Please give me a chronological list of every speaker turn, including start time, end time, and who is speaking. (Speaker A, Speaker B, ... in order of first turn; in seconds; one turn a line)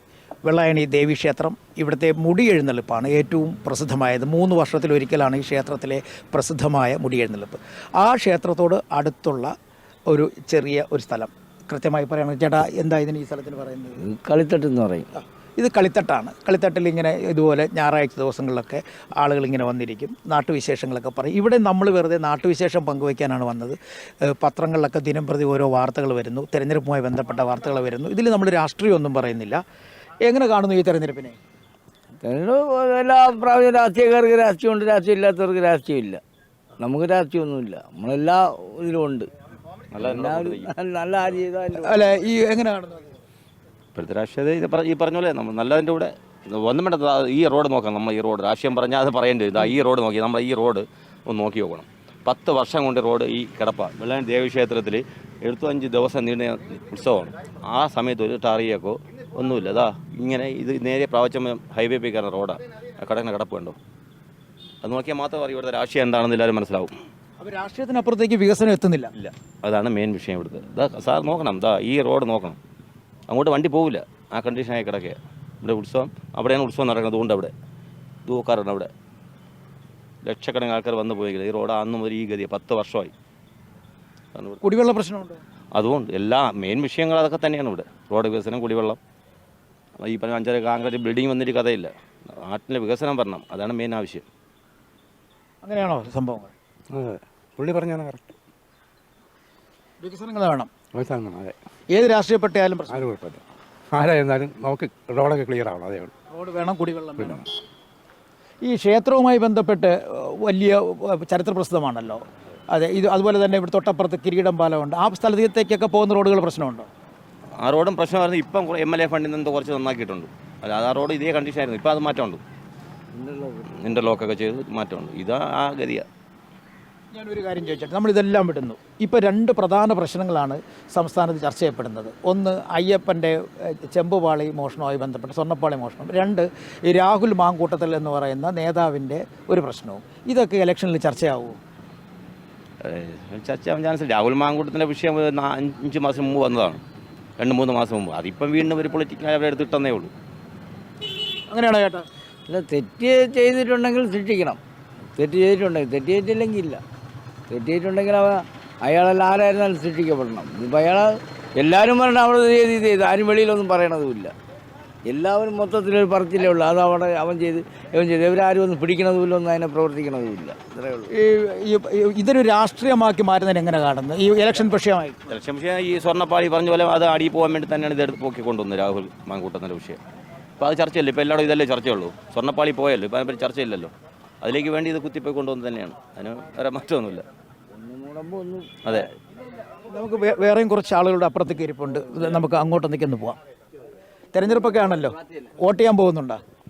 Speaker A: 0.4-9.5
Speaker A: 10.1-14.1
Speaker B: 14.0-15.1
Speaker A: 15.1-29.6
Speaker A: 30.2-31.4
Speaker B: 32.2-36.2
Speaker B: 36.8-39.3
Speaker C: 39.9-40.7
Speaker B: 40.0-42.0
Speaker A: 41.8-43.1
Speaker C: 44.0-63.8
Speaker C: 64.8-66.9
Speaker A: 67.4-69.1
Speaker C: 69.2-72.6
Speaker C: 73.3-77.5
Speaker C: 78.3-78.9
Speaker C: 80.2-83.1
Speaker C: 84.3-84.6
Speaker A: 84.6-85.4
Speaker C: 85.8-89.0
Speaker C: 90.0-94.2
Speaker A: 95.6-96.5
Speaker D: 96.9-98.2
Speaker A: 100.0-100.7
Speaker D: 100.9-101.5
Speaker A: 101.9-103.1
Speaker D: 102.9-106.1
Speaker A: 106.3-107.5
Speaker D: 107.2-107.5
Speaker A: 108.6-112.2
Speaker A: 112.7-116.9
Speaker C: 117.6-122.4
Speaker B: 123.2-123.7
Speaker C: 123.7-126.1
Speaker A: 127.1-141.6
Speaker C: 142.8-146.8
Speaker C: 147.4-150.1
Speaker A: 151.5-152.1
Speaker B: 152.5-154.6
Speaker B: 155.2-156.8
Speaker B: 157.5-164.3
Speaker B: 165.1-171.1
Speaker A: 171.1-175.2
Speaker C: 175.3-180.0
Speaker C: 180.6-187.2
Speaker B: 187.7-188.7
Speaker A: 189.9-193.4
Speaker A: 194.3-196.4